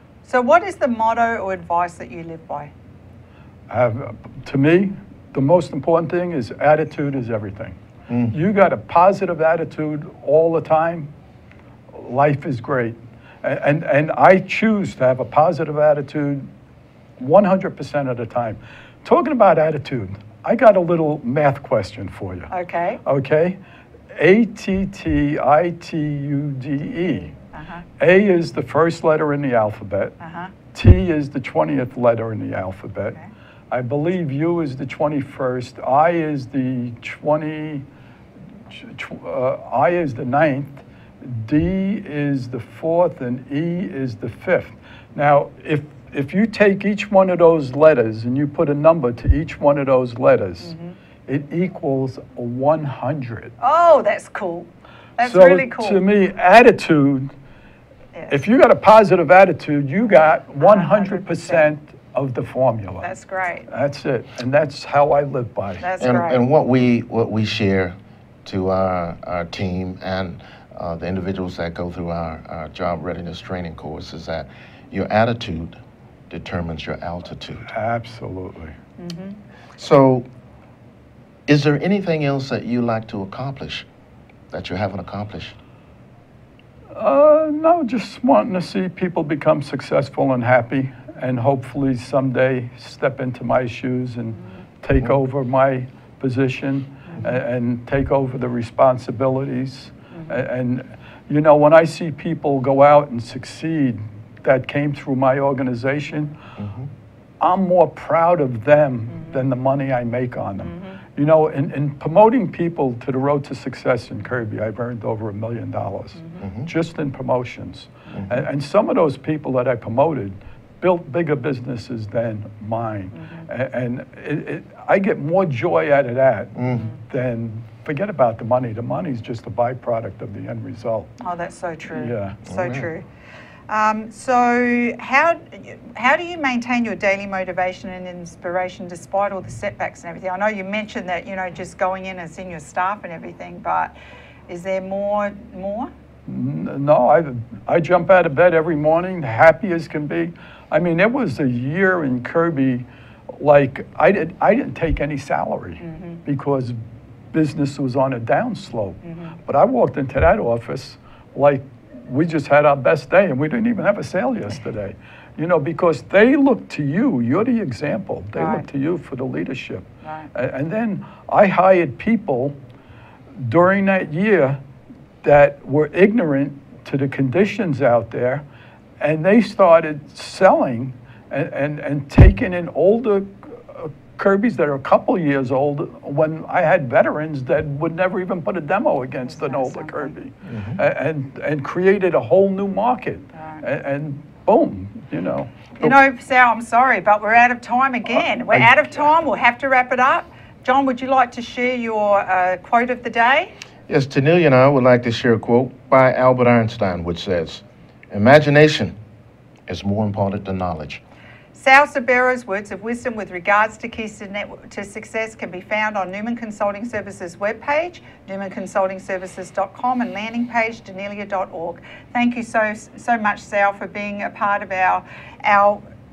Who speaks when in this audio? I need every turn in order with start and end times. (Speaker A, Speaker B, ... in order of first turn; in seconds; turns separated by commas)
Speaker A: 0.2-2.7, Speaker B: 3.7-7.8, Speaker C: 8.1-8.3, Speaker B: 8.3-11.1, Speaker B: 11.9-16.5, Speaker B: 17.2-22.5, Speaker A: 22.5-23.0, Speaker B: 23.1-23.6, Speaker B: 24.1-27.4, Speaker A: 27.5-27.9, Speaker B: 28.0-30.1, Speaker A: 30.2-30.5, Speaker B: 30.7-33.2, Speaker B: 33.7-37.9, Speaker B: 38.7-50.7, Speaker A: 50.6-50.9, Speaker B: 51.3-53.5, Speaker A: 53.6-56.0, Speaker B: 55.2-57.3, Speaker A: 58.1-58.4, Speaker B: 58.3-63.1, Speaker A: 60.6-61.7, Speaker A: 63.0-63.7, Speaker B: 63.7-65.9, Speaker A: 65.8-66.4, Speaker C: 66.0-75.7, Speaker C: 76.3-77.7, Speaker B: 77.7-78.8, Speaker A: 79.0-79.4, Speaker C: 79.8-80.3, Speaker C: 81.5-83.9, Speaker C: 84.5-85.6, Speaker B: 87.0-106.3, Speaker C: 106.6-106.9, Speaker B: 107.4-131.1, Speaker A: 110.7-111.0, Speaker C: 116.4-116.7, Speaker A: 123.2-123.5, Speaker C: 126.6-126.9, Speaker A: 131.2-133.1, Speaker B: 131.9-132.4, Speaker C: 132.4-132.9, Speaker A: 133.7-143.9, Speaker A: 144.5-145.9, Speaker B: 146.2-156.8, Speaker A: 155.8-156.2, Speaker B: 157.3-172.6, Speaker A: 159.1-159.3, Speaker A: 168.4-168.6, Speaker A: 170.0-170.3, Speaker B: 173.3-174.6, Speaker B: 175.2-178.4, Speaker B: 179.0-196.0, Speaker A: 189.3-190.1, Speaker C: 190.5-190.8, Speaker A: 193.4-193.6, Speaker A: 195.8-203.5, Speaker B: 198.2-199.0, Speaker C: 203.9-208.9, Speaker C: 209.7-211.0, Speaker A: 211.6-225.8